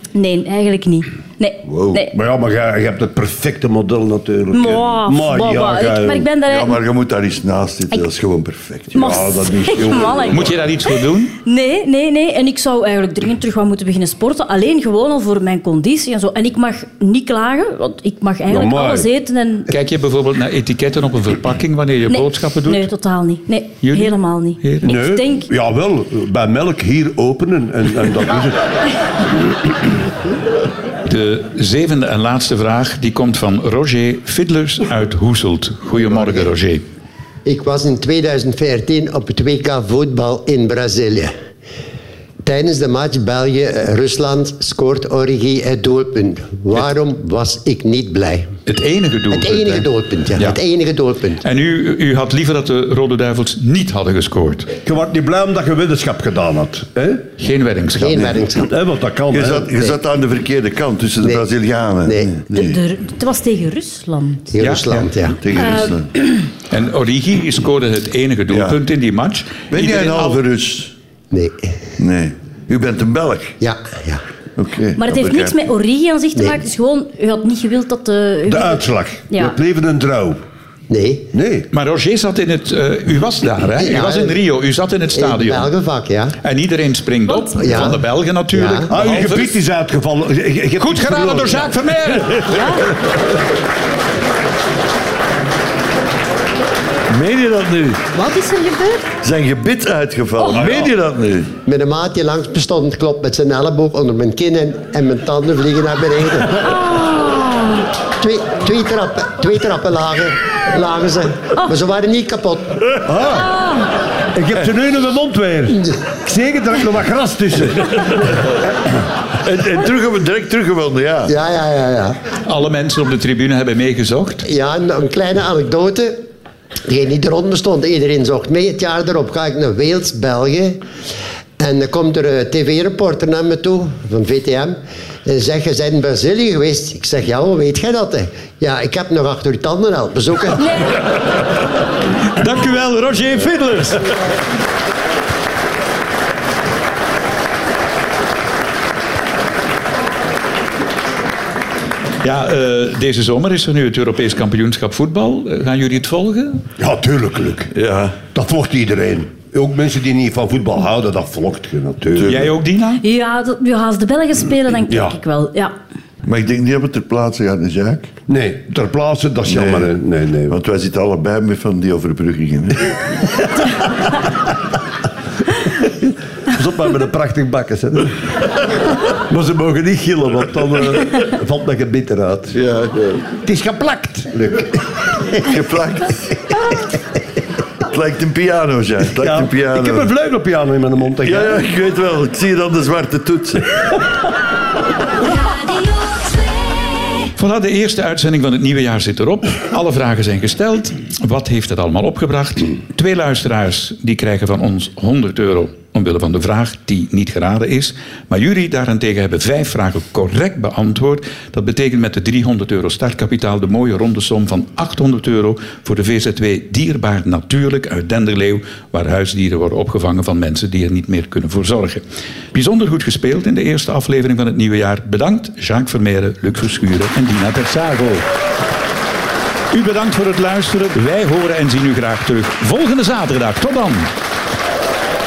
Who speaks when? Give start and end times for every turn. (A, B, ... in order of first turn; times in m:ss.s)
0:00.1-0:02.2 A
0:01.6-0:02.0 B
0:02.1-0:06.3 C
0:04.5-0:06.8 A
0:06.4-0:09.2 B
0:08.9-0:19.7 A
0:08.9-0:10.7 C
0:10.3-0:11.3 D
0:18.5-0:19.1 C
0:19.7-0:22.9 D
0:22.1-0:25.5 A
0:23.8-0:25.0 D
0:24.8-0:28.6 C
0:29.1-0:29.6 C
0:31.0-0:36.8 D
0:37.4-0:41.3 E
0:42.4-0:48.5 E
0:48.7-0:50.6 D
0:49.3-0:51.4 E
0:51.4-0:54.7 D
0:54.8-0:57.2 C
0:57.4-0:58.4 D
0:57.9-0:58.7 E
0:58.6-0:59.7 C
0:59.3-1:02.8 B
1:01.2-1:01.4 E
1:02.0-1:02.4 E
1:02.5-1:04.6 A
1:04.5-1:05.4 E
1:04.6-1:05.1 D
1:05.3-1:06.1 B
1:05.5-1:06.0 A
1:06.7-1:10.4 D
1:08.5-1:08.8 B
1:09.7-1:10.9 B
1:11.3-1:11.7 E
1:12.0-1:13.6 B
1:13.6-1:14.2 E
1:14.6-1:15.6 B
1:15.0-1:19.6 A
1:18.4-1:20.4 C
1:20.9-1:21.3 E
1:21.3-1:21.7 C
1:21.7-1:25.7 D
1:23.8-1:24.4 E
1:25.1-1:26.3 E
1:26.4-1:29.6 D
1:27.3-1:27.7 A
1:27.6-1:28.9 E
1:28.9-1:32.9 C
1:30.8-1:32.9 D
1:32.5-1:32.8 A
1:37.1-1:38.0 B
1:38.1-1:39.0 A
1:39.2-1:41.5 B
1:40.5-1:40.9 C
1:41.6-1:46.7 E
1:46.6-1:47.8 A
1:48.2-1:53.0 E
1:53.0-1:53.6 C
1:53.3-1:53.9 A
1:54.3-1:58.3 C
1:59.4-2:01.3 B
2:01.3-2:02.2 E
2:02.4-2:04.4 D
2:04.4-2:06.3 E
2:06.9-2:10.8 E
2:11.6-2:20.8 E
2:22.3-2:24.1 D
2:32.2-2:36.6 D
2:36.8-2:37.7 C
2:37.7-2:38.2 B
2:38.3-2:42.5 C
2:42.1-2:42.5 B
2:42.2-2:43.0 D
2:43.0-2:45.7 A
2:44.9-2:45.2 C
2:46.2-2:48.1 B
2:48.3-2:50.6 C
2:49.5-2:49.9 B
2:50.5-2:52.9 B
2:55.8-2:58.2 C
2:59.2-3:02.6 C
3:02.5-3:03.3 B
3:03.4-3:04.8 C
3:05.4-3:06.3 B
3:07.8-3:10.1 B
3:09.1-3:11.6 C
3:11.2-3:13.8 B
3:17.3-3:42.0 D
3:42.5-3:48.2 D
3:49.7-3:54.1 D